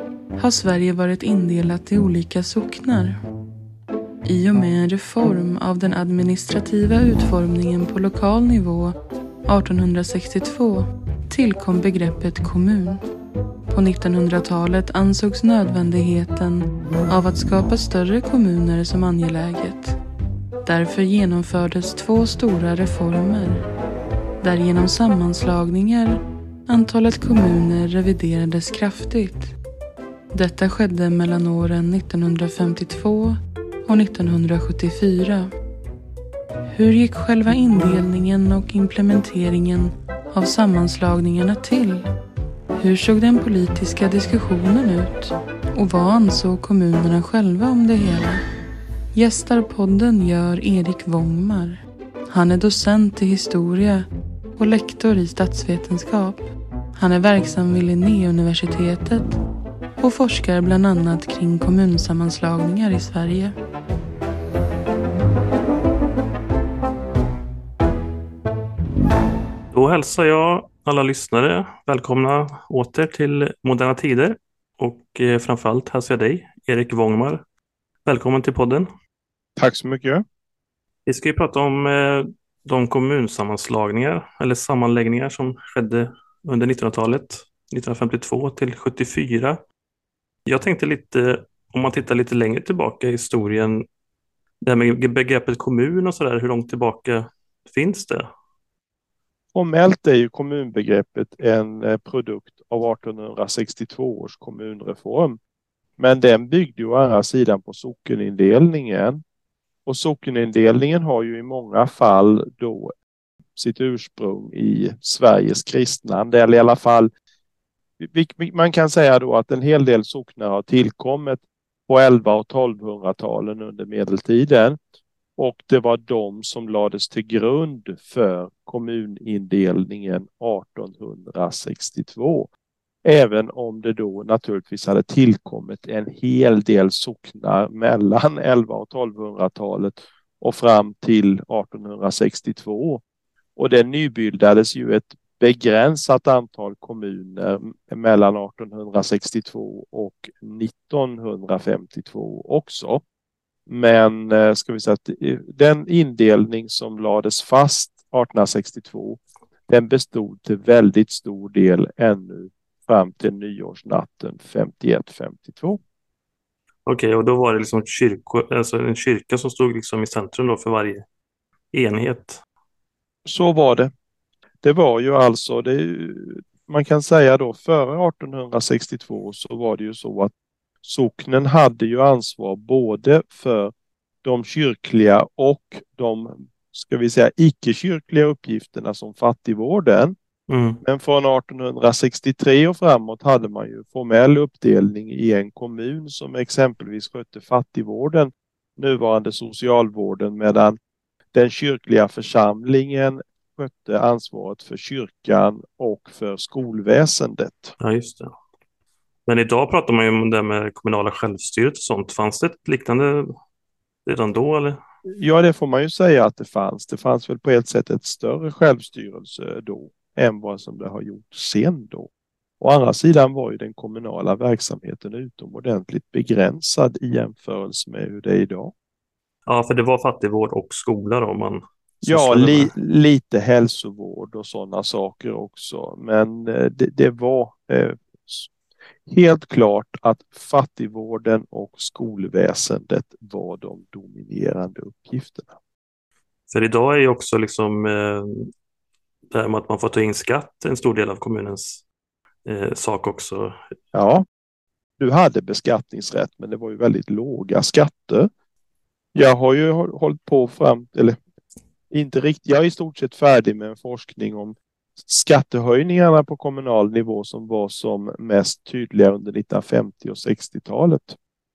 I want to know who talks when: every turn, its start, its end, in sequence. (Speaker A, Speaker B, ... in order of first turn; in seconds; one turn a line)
Speaker A: 0.4-3.2
Speaker A: 4.2-13.0
Speaker A: 13.7-20.0
Speaker A: 20.6-23.6
Speaker A: 24.4-29.5
Speaker A: 30.3-35.5
Speaker A: 36.7-42.0
Speaker A: 42.8-48.4
Speaker A: 49.1-54.0
Speaker A: 54.6-56.5
Speaker A: 57.0-59.4
Speaker A: 60.0-63.5
Speaker B: 69.7-77.4
Speaker B: 78.0-78.9
Speaker C: 79.6-80.2
Speaker B: 81.0-89.6
Speaker B: 90.5-93.8
Speaker B: 94.6-98.3
Speaker C: 99.5-105.4
Speaker C: 106.0-109.2
Speaker C: 109.8-112.9
Speaker C: 113.5-117.1
Speaker C: 118.0-124.8
Speaker C: 125.4-132.5
Speaker C: 133.0-143.0
Speaker C: 143.6-153.0
Speaker C: 153.7-165.8
Speaker B: 166.8-171.0
Speaker B: 171.7-172.4
Speaker C: 173.2-173.9
Speaker C: 174.6-180.3
Speaker C: 180.8-183.7
Speaker C: 184.2-190.1
Speaker B: 190.5-190.8
Speaker C: 190.8-200.8
Speaker C: 201.3-207.7
Speaker B: 207.8-208.3
Speaker B: 209.2-213.3
Speaker B: 214.1-214.8
Speaker C: 215.2-222.1
Speaker C: 222.6-228.7
Speaker B: 229.5-232.7
Speaker C: 232.1-238.5
Speaker C: 239.1-245.5
Speaker B: 246.5-248.5
Speaker B: 249.3-251.8
Speaker B: 252.4-253.6
Speaker C: 253.9-254.2
Speaker C: 255.0-258.3
Speaker C: 259.1-261.2
Speaker C: 261.9-271.1